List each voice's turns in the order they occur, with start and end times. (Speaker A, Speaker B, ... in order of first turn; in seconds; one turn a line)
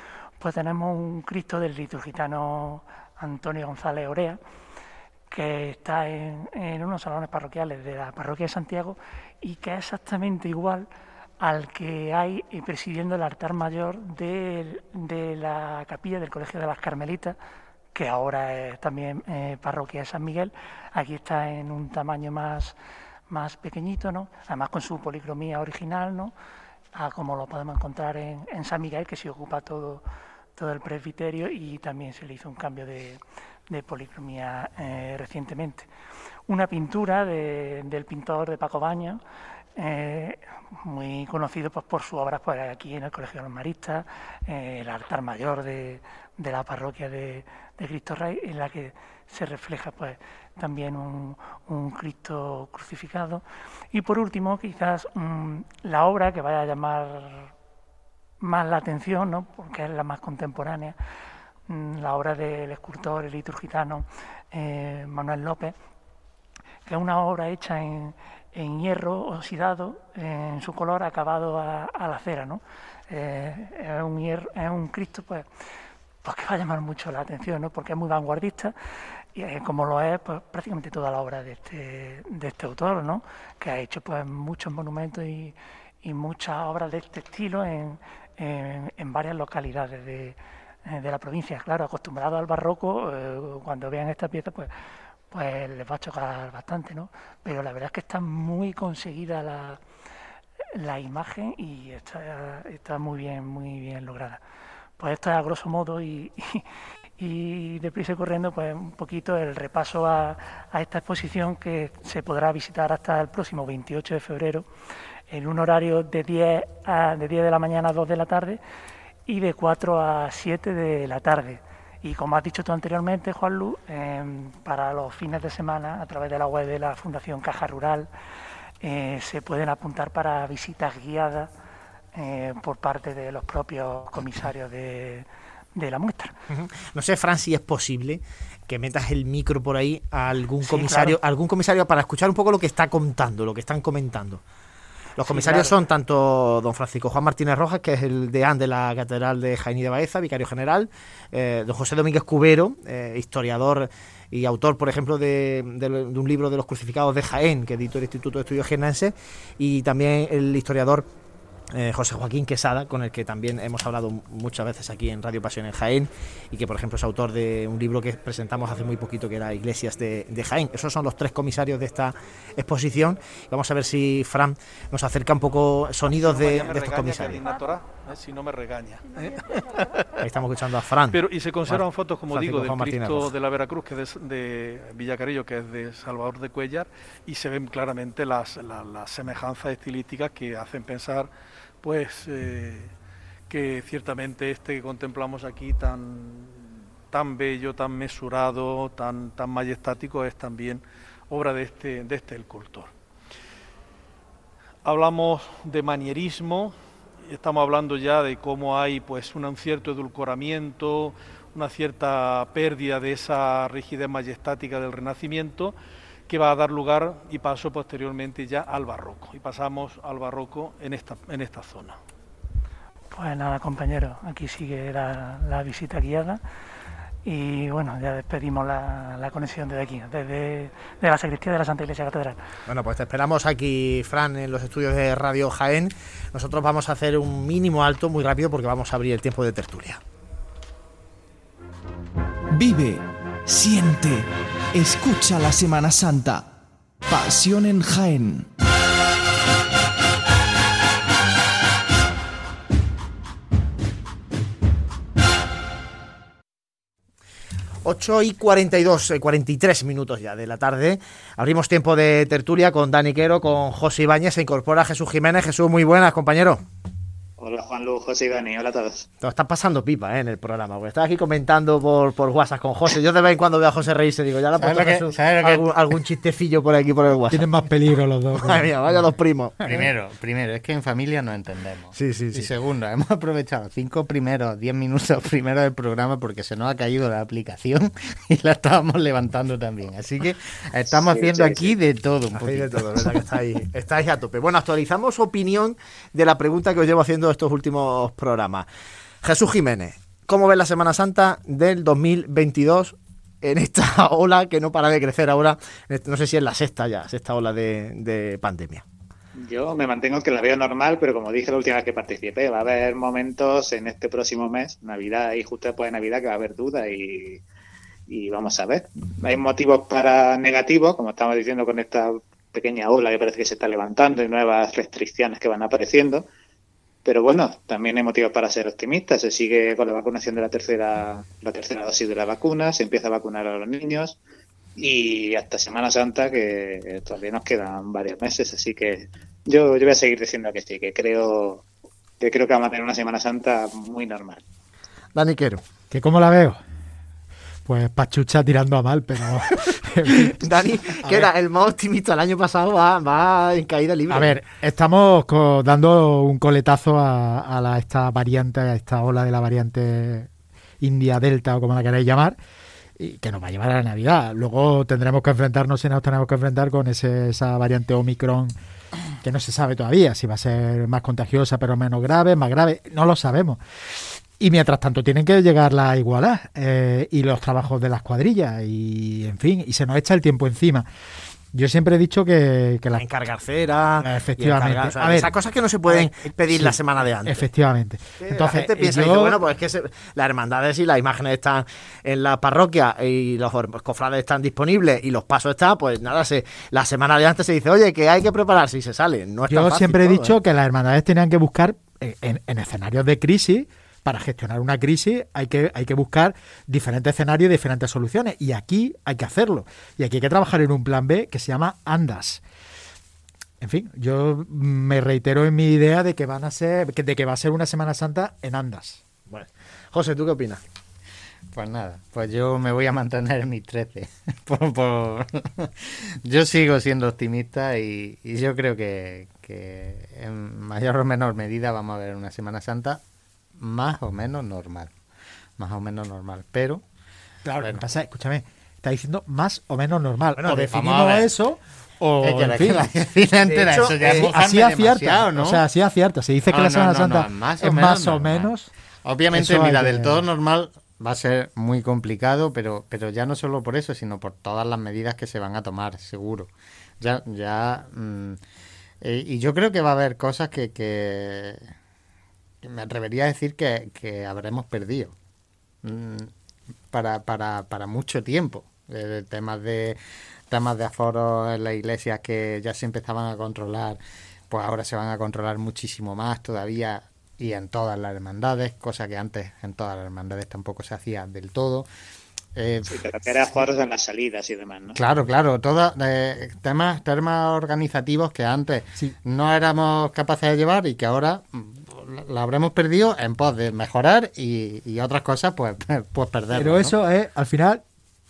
Speaker A: 0.4-4.4
Speaker A: 5.3-10.9
Speaker A: 11.4-17.4
Speaker A: 17.9-22.8
Speaker A: 23.3-26.3
Speaker A: 26.9-30.0
Speaker A: 30.6-35.9
Speaker A: 36.5-39.2
Speaker A: 39.8-57.5
Speaker A: 58.4-61.0
Speaker A: 61.7-65.8
Speaker A: 66.9-75.5
Speaker A: 76.2-78.8
Speaker A: 79.3-94.7
Speaker A: 95.3-99.8
Speaker A: 100.7-104.4
Speaker A: 105.0-106.7
Speaker A: 107.2-114.7
Speaker A: 115.3-118.6
Speaker A: 119.3-128.1
Speaker A: 128.8-131.5
Speaker A: 132.2-136.3
Speaker B: 136.5-144.4
Speaker A: 140.6-141.2
Speaker B: 145.2-161.1
Speaker A: 145.2-145.8
Speaker B: 161.7-177.4
Speaker C: 176.2-179.6
Speaker B: 180.2-183.3
Speaker C: 181.1-191.3
Speaker C: 191.8-192.9
Speaker C: 193.5-202.9
Speaker C: 204.8-215.8
Speaker C: 216.3-222.0
Speaker A: 223.1-226.4
Speaker A: 227.2-232.4
Speaker B: 232.7-240.0
Speaker D: 242.5-246.5
Speaker D: 247.1-248.5
Speaker B: 257.9-266.6
Speaker E: 267.4-269.1
Speaker B: 269.2-277.5
Speaker F: 274.6-275.7
Speaker G: 277.3-278.7
Speaker B: 278.4-279.9
Speaker F: 279.6-293.2
Speaker B: 281.9-282.5
Speaker B: 291.4-291.7
Speaker B: 292.4-298.7
Speaker B: 299.2-308.8
Speaker E: 309.4-317.4
Speaker E: 318.1-326.3
Speaker E: 327.1-334.2
Speaker E: 334.8-341.6
Speaker E: 342.2-344.4
Speaker B: 345.1-345.6
Speaker G: 345.9-346.6
Speaker G: 347.7-351.3
Speaker B: 350.2-354.4
Speaker G: 354.1-360.3
Speaker G: 360.8-362.4
Speaker G: 363.0-368.6
Speaker G: 369.2-373.6
Speaker G: 374.4-380.9
Speaker G: 381.5-383.0
Speaker B: 382.9-387.4
Speaker G: 384.0-385.3
Speaker G: 385.9-389.4
Speaker B: 388.2-400.4
Speaker G: 399.5-412.4
Speaker G: 413.6-419.0
Speaker B: 419.3-420.6
Speaker F: 421.5-433.0
Speaker F: 433.6-434.9
Speaker F: 435.6-436.8
Speaker G: 437.4-442.9
Speaker B: 440.4-440.8
Speaker F: 440.7-441.3
Speaker F: 442.2-445.6
Speaker B: 443.5-444.4
Speaker G: 444.1-448.7
Speaker F: 446.5-448.5
Speaker F: 449.1-458.4
Speaker G: 449.3-450.2
Speaker F: 459.0-461.7
Speaker F: 462.6-465.1
Speaker F: 465.8-466.3
Speaker F: 466.9-474.0
Speaker F: 474.5-481.9
Speaker F: 482.6-483.0
Speaker E: 482.9-485.0
Speaker F: 485.0-496.9
Speaker G: 496.5-497.8